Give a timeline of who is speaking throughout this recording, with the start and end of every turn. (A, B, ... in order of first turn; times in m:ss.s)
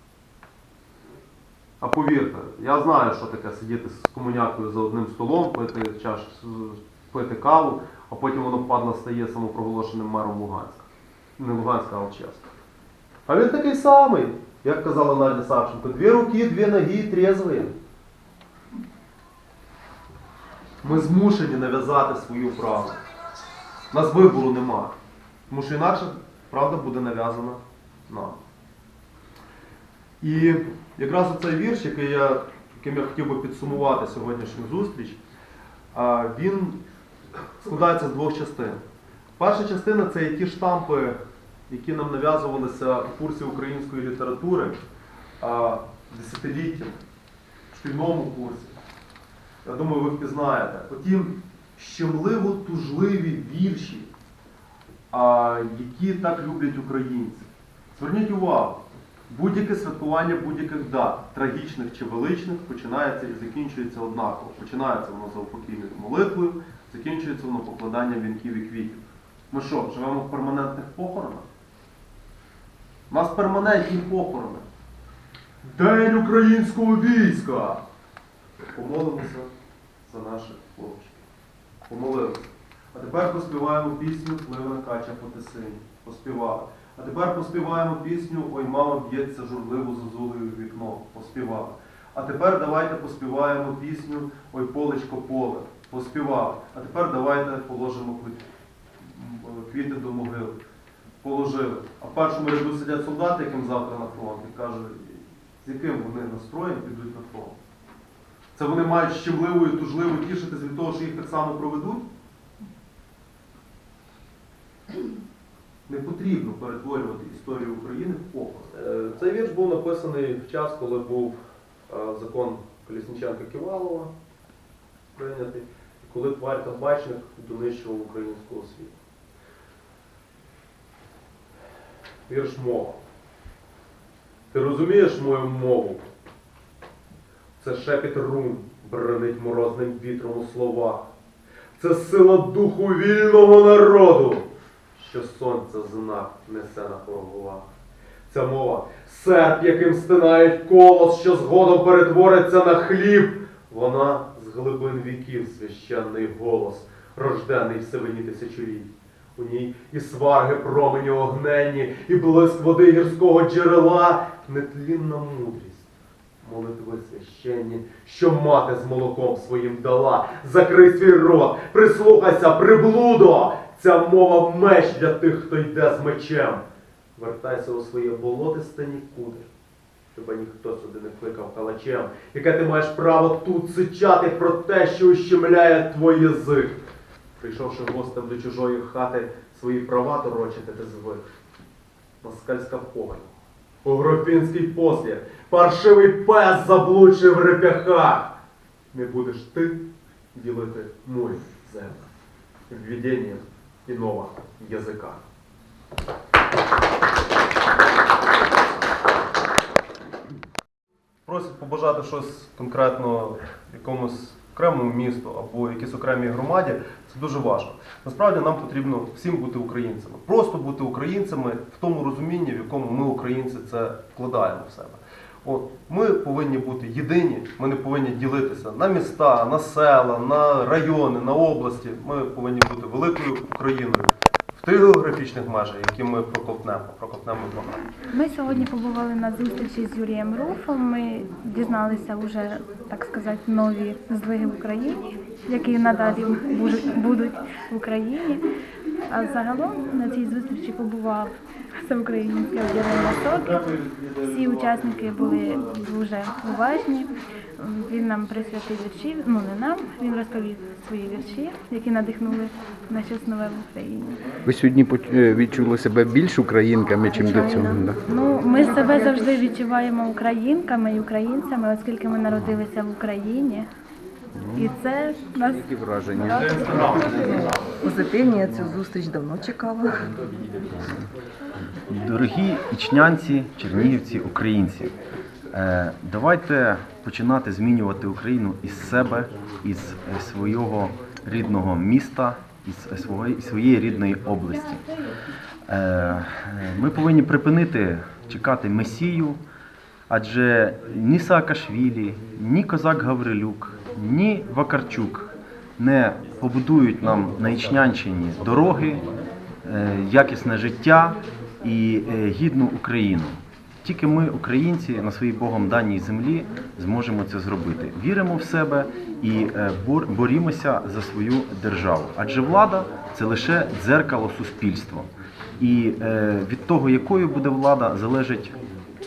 0:01.8-0:12.5 A
0:13.2-0:17.7 A
0:20.8-0:23.0 A
0:23.9-0:24.9 A
0:25.5-0:28.4 A
0:30.2-0:35.2 A
0:35.9-0:36.8 A
0:37.6-0:38.8 A
0:39.4-0:41.2 A
0:41.7-0:44.8 A
0:45.4-0:47.0 A
0:47.7-0:48.8 A
0:49.6-0:54.1 A
0:55.1-1:11.4 A
1:13.1-1:14.6 A
1:15.6-1:17.8 A
1:18.7-1:19.5 A
1:20.0-1:21.2 A
1:21.9-1:38.4 A
1:39.0-1:40.6 A
1:41.2-1:47.6 A
1:48.5-1:52.0 A
1:55.9-2:01.4 A
2:01.9-2:04.1 A
2:05.1-2:09.0 A
2:12.3-2:13.0 A
2:14.5-2:16.0 A
2:17.6-2:21.0 A
2:21.8-2:27.7 A
2:28.3-2:45.9 A
2:46.4-2:56.6 A
2:57.2-2:59.5 A
3:00.1-3:06.8 A
3:07.4-3:11.2 A
3:12.2-3:13.3 A
3:13.8-3:18.3 A
3:18.9-3:22.0 A
3:22.7-3:25.2 A
3:31.2-3:57.9 A
3:58.1-4:08.4 B
4:09.1-4:13.6 B
4:12.9-4:15.7 A
4:14.2-4:24.2 B
4:24.4-4:28.0 C
4:27.0-4:33.7 B
4:28.6-4:29.4 D
4:34.4-4:34.7 C
4:34.5-4:36.9 B
4:35.5-4:37.1 C
4:36.2-4:37.6 A
4:37.8-4:40.2 D
4:41.9-4:45.0 E
4:45.5-4:54.8 E
4:55.7-4:59.4 E
5:00.1-5:09.0 E
5:09.6-5:28.5 E